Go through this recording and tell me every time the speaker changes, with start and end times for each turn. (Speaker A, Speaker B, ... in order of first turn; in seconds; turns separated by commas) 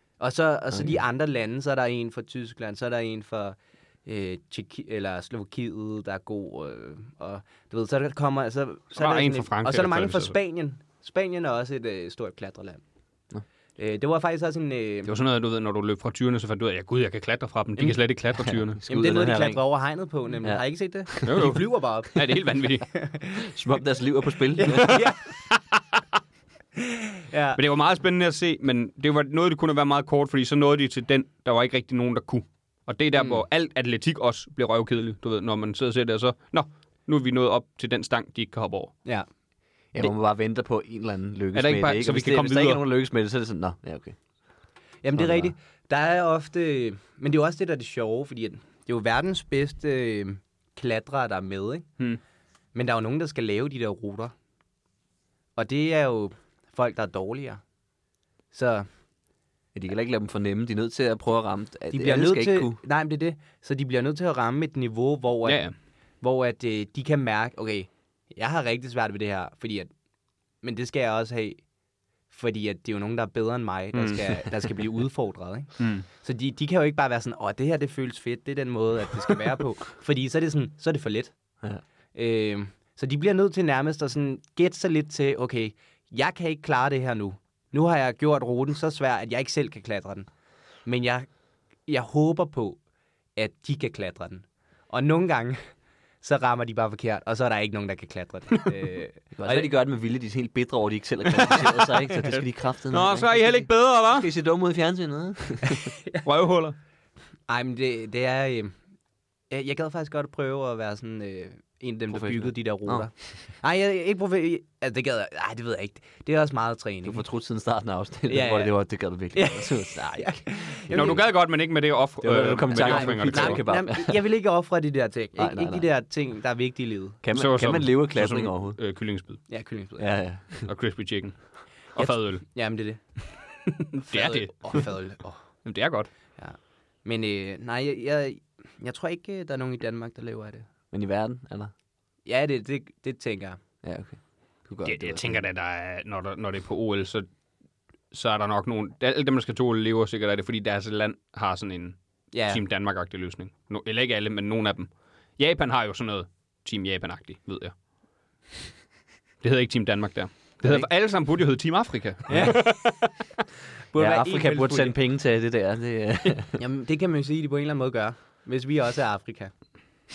Speaker A: 0.2-12.8, Speaker B: 9.0-10.3, Speaker A: 13.8-15.1, Speaker B: 15.1-18.8, Speaker C: 18.4-19.6, Speaker A: 18.9-22.4, Speaker C: 20.4-21.4, Speaker B: 21.2-22.9, Speaker A: 22.9-23.4, Speaker C: 23.4-25.0, Speaker A: 24.6-25.3, Speaker B: 24.7-25.0, Speaker A: 26.8-27.6, Speaker B: 27.6-39.0, Speaker A: 33.2-33.4, Speaker C: 39.9-44.2, Speaker B: 41.5-42.8, Speaker A: 45.0-51.9, Speaker C: 45.1-45.5, Speaker A: 52.7-54.3, Speaker A: 55.6-57.6, Speaker A: 58.5-58.9, Speaker C: 59.8-62.8, Speaker A: 61.9-65.6, Speaker B: 65.5-65.7, Speaker A: 66.2-69.9, Speaker A: 70.6-71.6, Speaker A: 72.3-81.3, Speaker B: 73.9-74.2, Speaker B: 75.8-76.1, Speaker A: 82.1-90.3, Speaker A: 90.9-91.3, Speaker A: 91.9-92.8, Speaker A: 93.4-95.6, Speaker A: 96.2-99.7, Speaker C: 99.3-105.9, Speaker B: 102.9-104.3, Speaker B: 106.2-106.8, Speaker A: 107.5-108.7, Speaker A: 109.5-117.2, Speaker C: 112.1-113.1, Speaker C: 117.0-121.2, Speaker A: 118.3-118.8, Speaker A: 119.3-121.2, Speaker B: 120.9-123.6, Speaker C: 122.2-124.2, Speaker A: 122.8-127.2, Speaker C: 125.4-125.9, Speaker C: 127.2-128.8, Speaker B: 127.3-129.5, Speaker A: 129.5-130.1, Speaker C: 130.0-130.7, Speaker B: 130.6-132.5, Speaker A: 132.0-133.0, Speaker B: 133.8-135.0, Speaker A: 134.0-135.4, Speaker B: 135.6-136.1, Speaker A: 136.4-140.7, Speaker C: 140.9-141.7, Speaker A: 142.3-143.6, Speaker C: 143.8-145.4, Speaker B: 144.8-147.3, Speaker B: 148.1-157.8, Speaker A: 152.3-152.6, Speaker B: 159.4-163.1, Speaker A: 162.3-162.8, Speaker A: 163.9-165.0, Speaker C: 164.0-166.6, Speaker A: 166.6-169.5